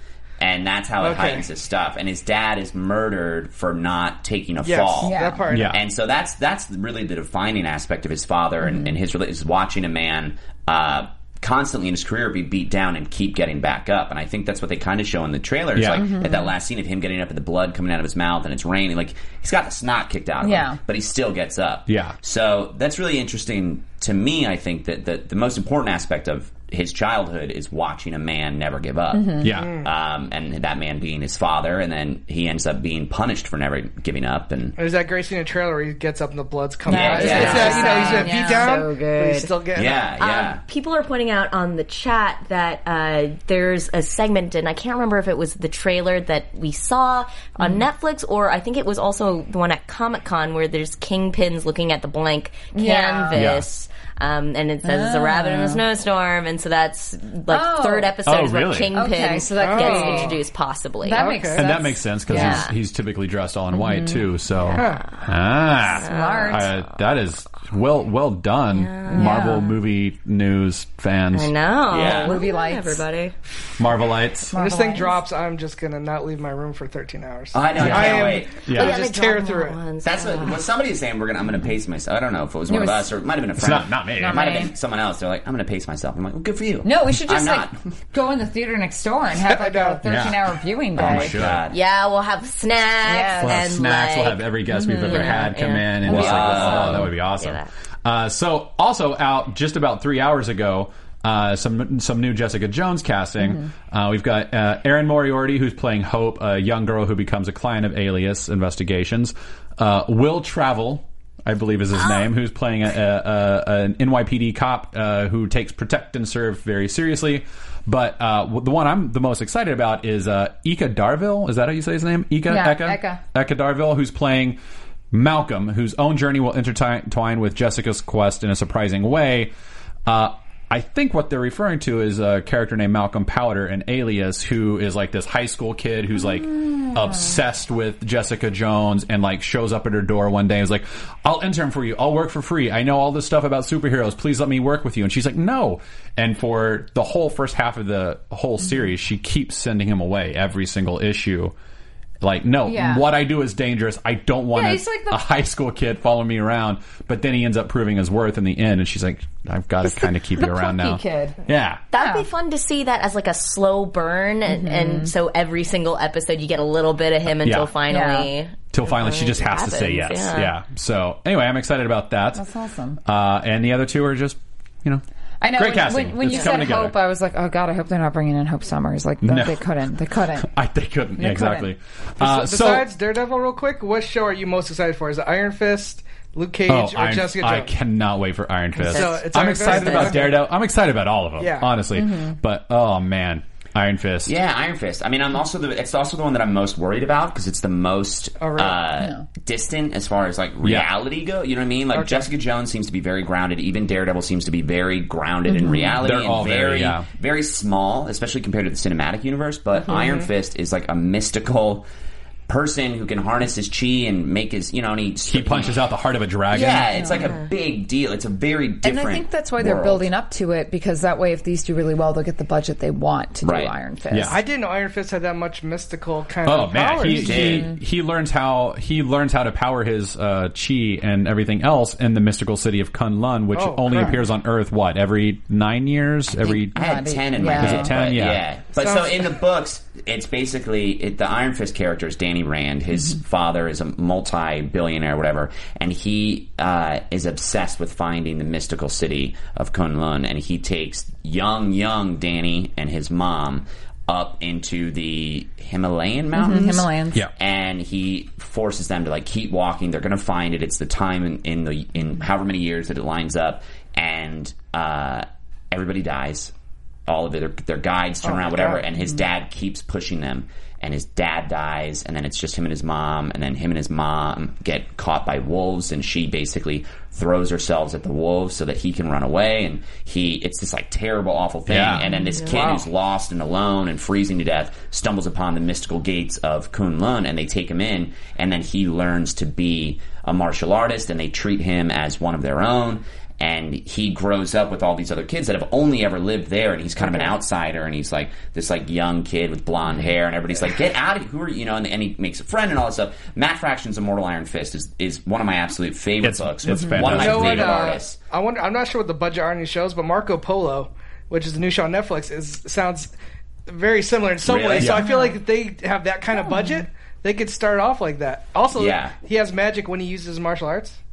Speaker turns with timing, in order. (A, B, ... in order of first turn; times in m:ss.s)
0:00.4-0:34.8 A
0:01.0-0:01.4 B
0:04.6-0:05.8 B
0:05.0-0:05.4 C
0:05.5-0:05.8 D
0:08.6-0:08.9 C
0:15.8-0:16.1 D
0:16.0-0:16.5 C
0:20.4-0:20.8 C
0:21.9-0:22.2 D
0:29.1-0:29.6 C
0:29.4-0:29.8 D
0:29.6-0:29.9 B
0:34.8-0:40.1 B
0:36.9-0:38.9 C
0:36.9-0:38.0 A
0:37.4-0:39.6 E
0:39.8-0:40.6 A
0:40.2-1:01.4 E
0:52.7-0:53.4 C
0:53.3-0:53.7 D
0:54.8-0:55.8 C
0:57.5-0:58.1 C
0:58.2-0:58.9 D
0:58.9-1:00.4 C
0:59.6-1:00.4 B
1:01.0-1:02.7 C
1:01.2-1:01.8 B
1:01.6-1:11.5 D
1:02.3-1:02.7 E
1:03.8-1:04.2 C
1:04.6-1:05.2 E
1:04.8-1:05.0 B
1:06.0-1:06.7 C
1:06.0-1:06.7 E
1:08.7-1:09.5 E
1:09.1-1:09.8 C
1:11.3-1:13.3 E
1:11.9-1:12.4 A
1:12.1-1:13.0 C
1:13.8-1:14.5 D
1:14.5-1:15.2 C
1:14.5-1:19.9 B
1:17.5-1:18.7 A
1:17.8-1:19.0 D
1:18.7-1:20.6 E
1:20.0-1:27.7 A
1:22.7-1:23.1 C
1:23.6-1:24.7 D
1:24.2-1:24.7 C
1:26.8-1:31.3 C
1:29.4-1:30.0 B
1:30.0-1:30.4 D
1:30.9-1:31.6 D
1:31.0-1:31.8 A
1:31.7-1:34.5 E
1:33.1-1:33.6 C
1:33.4-2:04.6 D
1:34.7-1:35.5 C
1:35.0-1:37.7 E
1:36.1-1:37.1 A
1:36.1-1:37.1 C
2:02.5-2:03.2 C
2:05.1-2:09.5 D
2:10.1-2:31.6 D
2:32.2-2:41.8 D
2:32.6-2:33.1 C
2:34.5-2:35.2 C
2:39.8-2:41.4 C
2:41.9-2:50.5 E
2:41.9-2:42.3 C
2:44.5-2:45.1 C
2:47.4-2:47.7 D
2:47.9-2:48.3 C
2:48.7-2:52.4 D
2:52.4-2:53.0 C
2:53.0-2:57.0 D
2:55.4-3:00.5 C
2:59.2-2:59.6 D
3:00.4-3:02.9 D
3:01.2-3:01.7 C
3:02.2-3:07.7 B
3:06.7-3:14.3 D
3:08.8-3:10.3 E
3:08.8-3:10.4 B
3:11.4-3:11.8 B
3:12.0-3:12.4 C
3:14.2-3:31.9 A
3:18.4-3:18.8 B
3:19.0-3:19.2 C
3:20.6-3:20.9 D
3:21.9-3:22.3 B
3:25.5-3:26.0 C
3:26.0-3:27.1 D
3:29.9-3:30.2 B
3:32.5-3:35.8 A
3:35.3-3:36.9 D
3:36.5-3:40.1 A
3:36.9-3:37.3 C
3:38.8-3:44.4 C
3:43.4-3:43.7 A
3:44.1-3:44.4 D
3:44.3-3:47.5 B
3:46.4-3:56.7 D
3:47.1-3:47.8 C
3:47.2-3:47.7 A
3:53.5-3:54.2 B
3:56.5-3:57.9 C
3:56.7-4:26.5 A
3:57.5-3:58.4 D
3:58.8-3:59.2 B
4:16.4-4:17.2 C
4:27.1-5:08.2 A
4:28.2-4:28.8 B
4:41.7-4:42.1 D
4:42.1-4:42.7 E
4:42.5-4:42.9 B
4:57.0-4:57.3 B
5:06.2-5:07.7 D
5:07.0-5:13.1 B
5:13.7-5:21.0 B
5:14.4-5:15.1 A
5:14.8-5:15.1 D
5:15.0-5:15.4 C
5:18.7-5:19.2 A